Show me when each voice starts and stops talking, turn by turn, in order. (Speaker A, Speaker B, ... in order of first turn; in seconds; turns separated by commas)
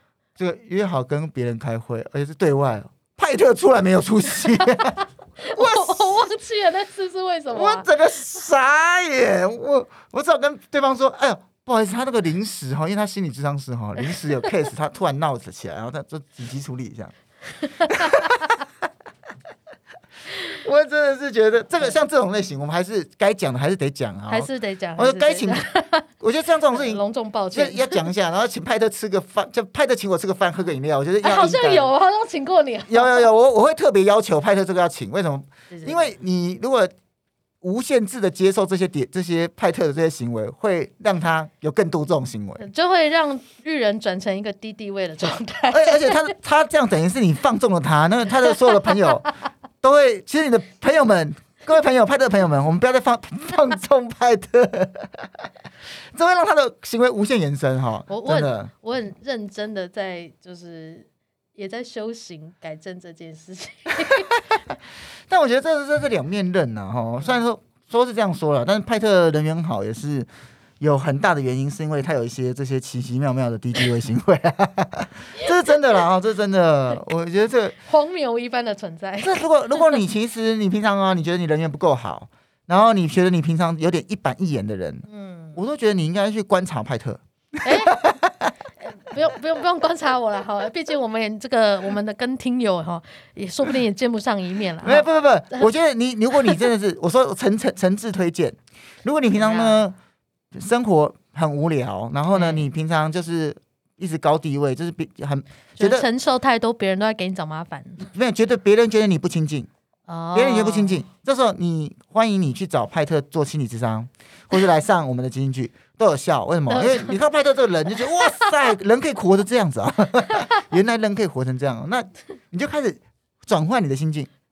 Speaker A: 0.4-6.0, Speaker B: 5.4-7.9, Speaker A: 7.5-17.1, Speaker B: 17.6-18.3, Speaker A: 17.9-18.6, Speaker A: 20.5-25.6, Speaker B: 24.3-26.1, Speaker A: 26.2-27.0, Speaker B: 26.7-28.1, Speaker A: 27.5-31.9, Speaker B: 31.2-33.3, Speaker A: 32.9-36.9, Speaker B: 35.7-36.1, Speaker A: 37.6-42.6, Speaker B: 42.6-46.3, Speaker A: 45.7-55.5, Speaker A: 56.1-58.7, Speaker B: 58.1-64.3, Speaker A: 65.3-70.3, Speaker A: 70.8-77.8, Speaker B: 77.8-80.0, Speaker A: 79.2-88.5, Speaker B: 85.1-85.6, Speaker B: 87.7-88.1, Speaker B: 88.8-95.7, Speaker A: 94.8-100.0, Speaker B: 99.4-99.8, Speaker A: 100.5-106.1, Speaker B: 102.3-102.7, Speaker B: 105.8-108.0, Speaker A: 108.0-109.7, Speaker B: 110.1-111.0, Speaker A: 110.3-124.3, Speaker B: 116.7-117.2, Speaker B: 118.0-118.5